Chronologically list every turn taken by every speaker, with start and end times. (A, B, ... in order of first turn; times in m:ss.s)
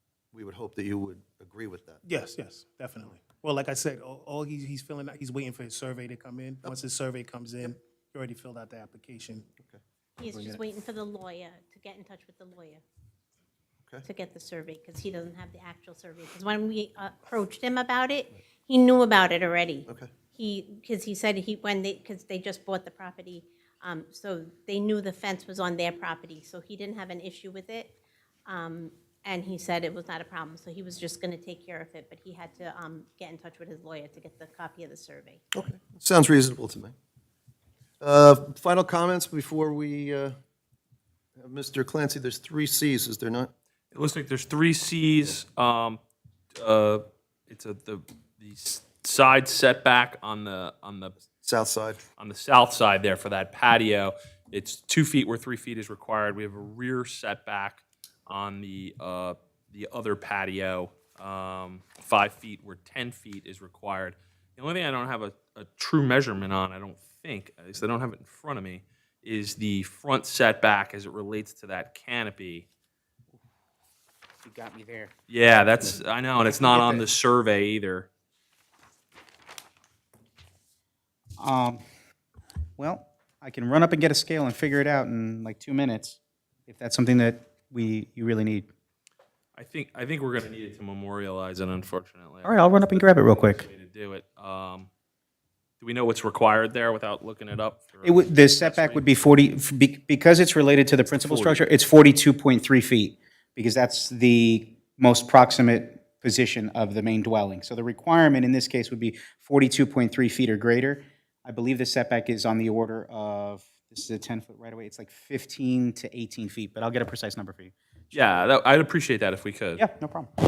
0:00.3-0:02.0 A
0:02.0-0:09.5 B
0:10.2-0:12.8 C
0:10.3-0:10.6 B
0:14.0-0:35.4 C
0:35.6-0:37.0 A
0:38.0-0:40.4 A
0:41.4-0:43.5 A
0:43.9-0:46.0 D
0:46.6-0:51.2 D
0:51.4-0:52.0 A
0:52.2-1:12.7 D
1:14.4-1:15.1 E
1:15.3-1:18.1 D
1:16.4-1:17.0 E
1:21.4-1:21.8 E
1:22.8-1:28.7 E
1:29.6-1:34.9 D
1:32.4-1:33.7 E
1:35.8-1:39.0 D
1:38.0-1:58.2 E
1:41.2-1:41.6 D
1:58.1-1:59.8 D
1:59.8-2:00.3 E